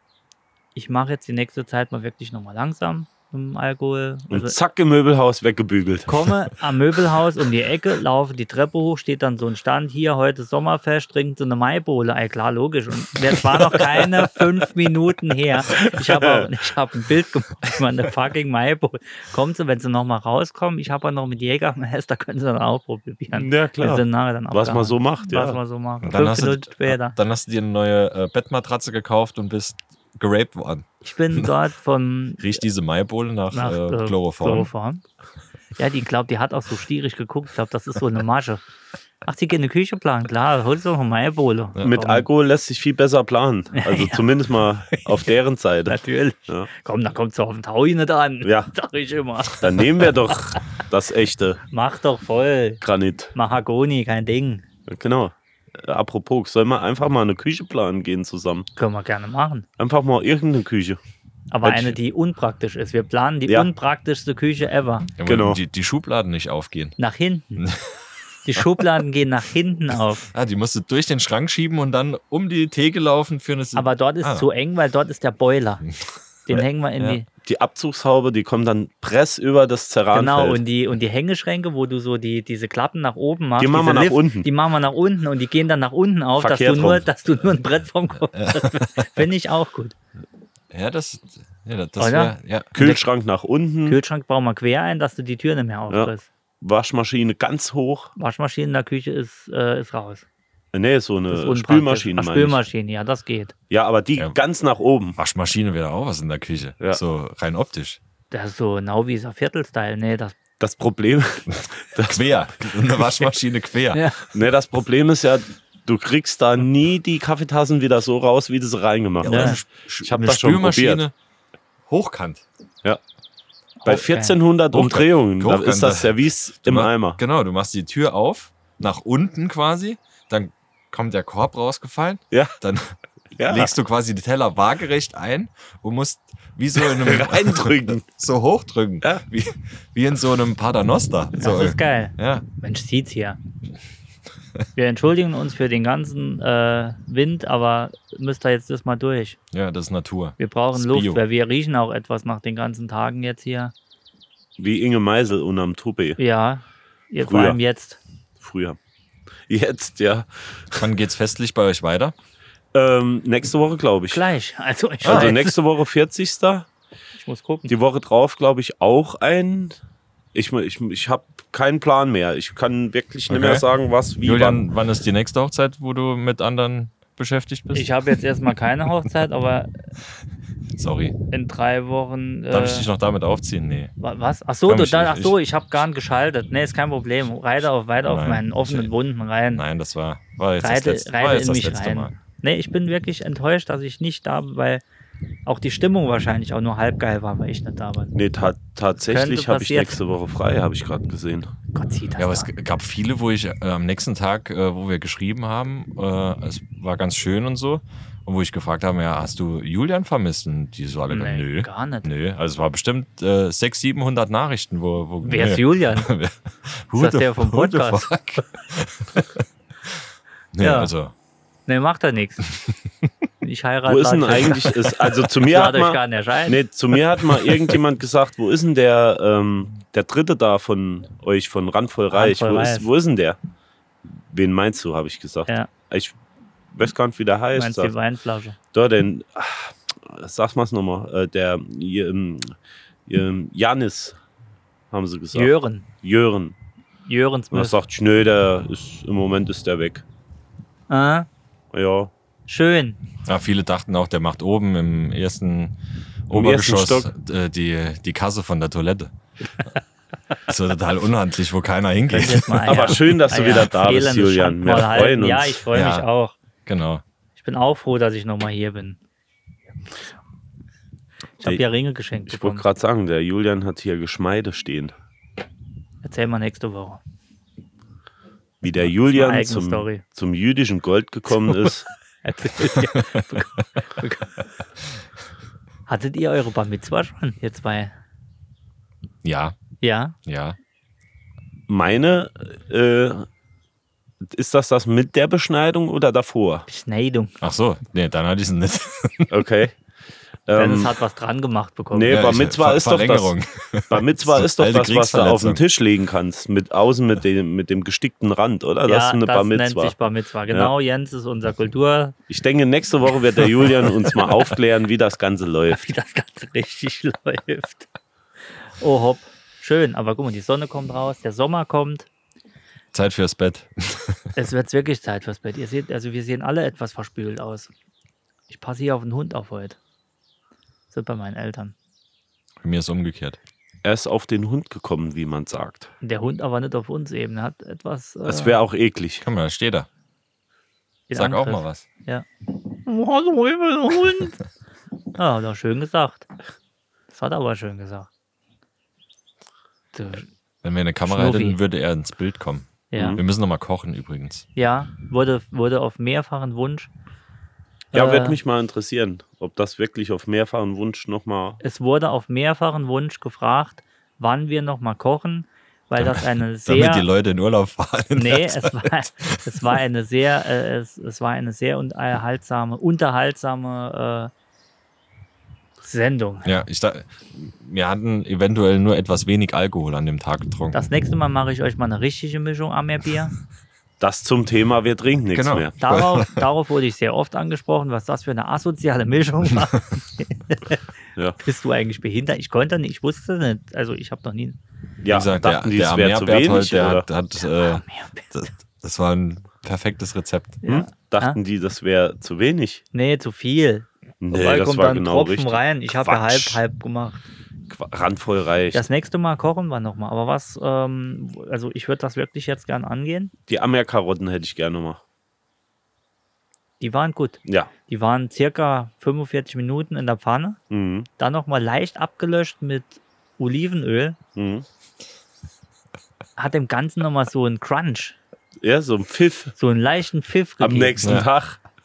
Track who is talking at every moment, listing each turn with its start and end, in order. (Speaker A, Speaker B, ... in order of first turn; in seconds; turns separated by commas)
Speaker A: 0.7-4.5, Speaker B: 4.3-6.3, Speaker A: 6.1-27.2, Speaker B: 15.7-16.4, Speaker B: 23.3-25.6, Speaker C: 26.0-31.5, Speaker A: 31.0-32.4, Speaker C: 32.4-34.7, Speaker A: 33.5-35.0, Speaker A: 35.8-38.6, Speaker A: 39.2-42.3, Speaker B: 41.8-46.7, Speaker A: 43.8-44.2, Speaker A: 45.9-50.0, Speaker B: 48.4-48.7, Speaker B: 49.6-51.6, Speaker A: 51.7-52.8, Speaker B: 52.8-53.3, Speaker A: 53.3-54.6, Speaker B: 54.9-58.7, Speaker A: 58.8-59.6, Speaker B: 59.8-61.0, Speaker A: 61.5-65.1, Speaker B: 61.6-62.0, Speaker C: 65.2-67.0, Speaker B: 65.2-65.6, Speaker A: 67.0-67.7, Speaker C: 67.6-68.0, Speaker A: 68.5-70.3, Speaker C: 70.3-74.5, Speaker A: 73.7-75.8, Speaker A: 76.5-77.2, Speaker C: 76.6-77.2, Speaker B: 77.4-80.6, Speaker A: 80.1-89.9, Speaker B: 83.6-84.5, Speaker B: 86.4-87.0, Speaker C: 88.3-89.2, Speaker C: 90.7-92.7, Speaker A: 92.0-93.0, Speaker B: 92.7-94.0, Speaker A: 93.8-96.3, Speaker B: 95.9-98.1, Speaker A: 98.2-100.2, Speaker B: 100.7-102.6, Speaker A: 101.3-103.5, Speaker B: 103.7-105.2, Speaker C: 105.2-108.0, Speaker A: 108.3-110.3, Speaker B: 110.6-112.5, Speaker C: 111.6-114.1, Speaker A: 113.9-114.2, Speaker B: 114.3-121.0, Speaker C: 119.2-121.1, Speaker A: 119.2-119.6, Speaker C: 121.9-122.4, Speaker A: 123.8-124.4, Speaker B: 123.8-127.2, Speaker C: 124.7-126.1, Speaker C: 126.6-142.4, Speaker B: 133.4-133.7, Speaker B: 136.8-138.0, Speaker A: 141.4-143.4, Speaker A: 144.7-149.4, Speaker C: 149.5-151.2, Speaker A: 150.4-153.7, Speaker B: 154.6-156.2, Speaker A: 156.2-158.0, Speaker B: 157.2-157.6, Speaker B: 158.4-158.8, Speaker B: 159.5-160.8, Speaker C: 160.8-162.1, Speaker B: 162.7-164.2, Speaker A: 164.1-165.6, Speaker B: 165.0-166.7, Speaker C: 165.0-165.3, Speaker A: 167.2-167.7, Speaker B: 167.7-169.8, Speaker B: 170.3-174.6, Speaker C: 173.3-173.6, Speaker C: 174.2-177.9, Speaker A: 177.7-179.7, Speaker C: 180.7-181.1, Speaker A: 181.3-182.9, Speaker C: 182.5-183.9, Speaker A: 184.0-189.6, Speaker C: 184.7-185.3, Speaker C: 188.1-188.9, Speaker C: 189.5-192.1, Speaker A: 190.6-194.8, Speaker A: 195.4-198.1, Speaker B: 198.1-201.5, Speaker A: 199.1-199.9, Speaker A: 201.7-202.5, Speaker C: 202.2-221.1, Speaker A: 211.1-212.1, Speaker A: 215.2-216.1, Speaker A: 216.9-218.1, Speaker A: 220.6-220.9, Speaker A: 221.7-222.5, Speaker A: 223.4-224.7, Speaker B: 223.8-233.4, Speaker A: 225.4-226.6, Speaker A: 232.1-232.9, Speaker B: 234.3-236.1, Speaker B: 236.7-237.9, Speaker A: 237.5-238.6, Speaker B: 238.7-242.5, Speaker B: 243.1-244.2, Speaker B: 244.9-246.5, Speaker A: 245.3-245.8, Speaker A: 247.1-247.8, Speaker B: 247.5-250.0, Speaker A: 250.9-251.3, Speaker B: 251.7-252.1, Speaker A: 252.5-253.0, Speaker C: 253.2-255.8, Speaker C: 256.3-259.1, Speaker B: 256.3-257.1, Speaker C: 260.5-263.0, Speaker A: 262.1-266.4, Speaker B: 262.6-265.6, Speaker C: 265.7-266.1, Speaker C: 266.6-267.0, Speaker A: 267.4-269.0, Speaker A: 271.4-272.6, Speaker B: 272.3-274.9, Speaker A: 276.0-277.0, Speaker B: 278.6-281.9, Speaker A: 279.0-280.0, Speaker A: 282.2-284.4, Speaker C: 283.2-283.4, Speaker A: 285.9-287.9, Speaker C: 289.2-289.6, Speaker A: 289.8-290.1, Speaker C: 290.2-290.6, Speaker B: 291.7-293.3, Speaker B: 294.2-296.6, Speaker A: 296.7-297.4, Speaker C: 297.4-299.3, Speaker B: 299.3-299.8, Speaker B: 300.5-300.9, Speaker A: 300.6-302.2, Speaker B: 301.9-303.3, Speaker C: 302.1-305.6, Speaker B: 303.9-309.9, Speaker A: 308.9-312.1, Speaker B: 312.3-315.9, Speaker A: 315.7-317.9, Speaker A: 318.7-322.1, Speaker C: 322.9-324.2, Speaker A: 324.4-327.7, Speaker A: 328.5-329.8, Speaker A: 330.9-331.7, Speaker C: 332.6-333.4, Speaker B: 333.8-335.9, Speaker A: 336.0-338.6, Speaker B: 338.2-339.2, Speaker C: 339.2-339.9, Speaker A: 341.1-344.4, Speaker C: 341.1-341.8, Speaker A: 345.1-346.2, Speaker A: 347.1-348.1, Speaker A: 349.9-350.3, Speaker C: 350.6-354.4, Speaker A: 351.0-351.6, Speaker A: 352.9-353.2, Speaker B: 352.9-353.2, Speaker A: 354.6-356.9, Speaker A: 357.9-358.4, Speaker B: 357.9-361.6, Speaker A: 361.6-367.1, Speaker C: 366.0-369.6, Speaker A: 368.1-374.3, Speaker A: 375.8-376.5, Speaker C: 376.4-380.8, Speaker A: 380.7-383.3, Speaker B: 384.0-385.8, Speaker C: 385.3-386.4, Speaker A: 385.8-390.8, Speaker A: 391.4-394.6, Speaker B: 395.0-397.1, Speaker C: 395.1-400.6, Speaker A: 397.4-398.5, Speaker A: 400.6-401.4, Speaker B: 400.7-402.8, Speaker A: 402.9-407.2, Speaker B: 404.2-406.6, Speaker B: 407.7-408.8, Speaker A: 408.7-413.3, Speaker B: 413.5-415.0, Speaker A: 416.8-420.6, Speaker B: 417.4-417.7, Speaker B: 420.7-421.1, Speaker A: 421.2-424.2, Speaker B: 424.4-424.6, Speaker A: 426.4-428.2, Speaker B: 428.6-429.5, Speaker A: 429.6-431.2, Speaker B: 430.6-431.6